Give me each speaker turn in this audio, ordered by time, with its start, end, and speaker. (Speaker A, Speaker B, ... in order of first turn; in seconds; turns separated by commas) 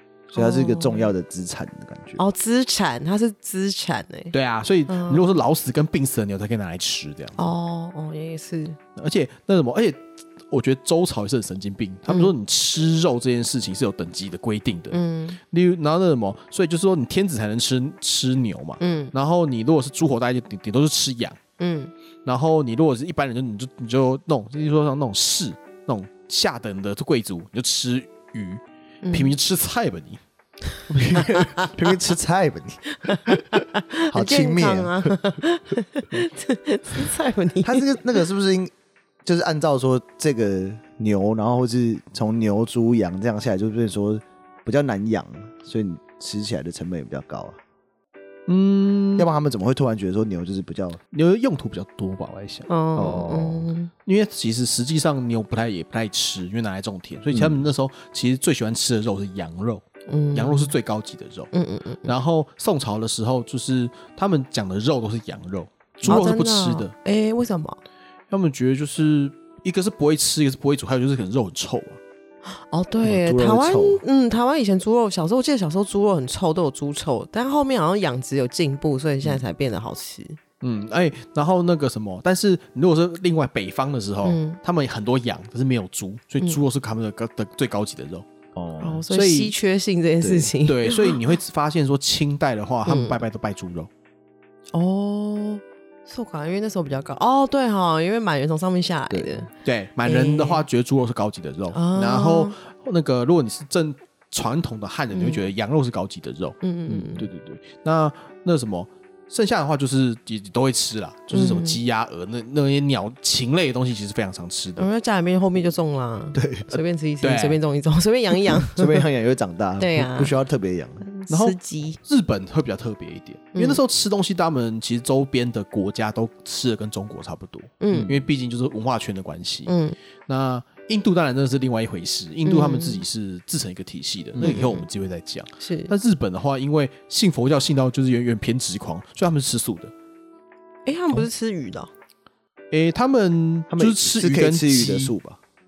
Speaker A: 0.3-1.1, Speaker B: 0.3-2.2, Speaker A: 2.2-4.3, Speaker C: 4.3-7.4, Speaker A: 4.9-5.3, Speaker A: 7.4-8.8, Speaker C: 9.0-15.0, Speaker A: 14.9-15.4, Speaker C: 15.5-21.4, Speaker A: 18.8-19.1, Speaker A: 21.6-21.9, Speaker C: 22.2-30.2, Speaker A: 29.0-29.3, Speaker B: 30.9-32.8, Speaker A: 33.0-38.0, Speaker B: 34.1-35.1, Speaker B: 37.6-38.7, Speaker B: 39.2-47.6, Speaker C: 48.5-49.3, Speaker B: 49.2-51.0, Speaker C: 51.1-52.7, Speaker A: 52.7-53.9, Speaker B: 53.0-53.7, Speaker C: 54.1-61.5, Speaker B: 57.3-57.6, Speaker A: 60.1-60.7, Speaker A: 61.5-62.1, Speaker C: 62.0-66.9, Speaker A: 66.0-67.8, Speaker C: 68.3-72.0, Speaker A: 72.6-80.4, Speaker B: 73.0-74.0, Speaker C: 80.6-88.2, Speaker A: 84.2-84.6, Speaker B: 88.5-89.0, Speaker A: 88.8-91.2, Speaker C: 89.1-89.5, Speaker B: 90.2-90.5, Speaker C: 90.6-93.9, Speaker A: 92.9-93.2, Speaker A: 94.7-99.5, Speaker B: 99.1-99.5, Speaker C: 99.6-106.6, Speaker A: 100.0-100.6, Speaker A: 101.7-102.5, Speaker A: 105.1-105.4, Speaker A: 106.6-107.3, Speaker C: 107.2-114.9, Speaker A: 111.3-111.8, Speaker A: 114.8-119.0, Speaker B: 116.3-116.8, Speaker C: 117.2-117.6, Speaker B: 118.6-121.0, Speaker A: 119.8-120.3, Speaker A: 121.0-122.0, Speaker C: 121.3-129.7, Speaker A: 123.5-123.8, Speaker A: 127.8-128.2, Speaker B: 127.9-128.2, Speaker A: 129.7-130.0, Speaker C: 130.3-139.9, Speaker A: 132.4-133.0, Speaker A: 134.4-134.9, Speaker A: 135.6-135.9, Speaker A: 140.9-141.9, Speaker C: 142.7-145.1, Speaker B: 143.7-145.4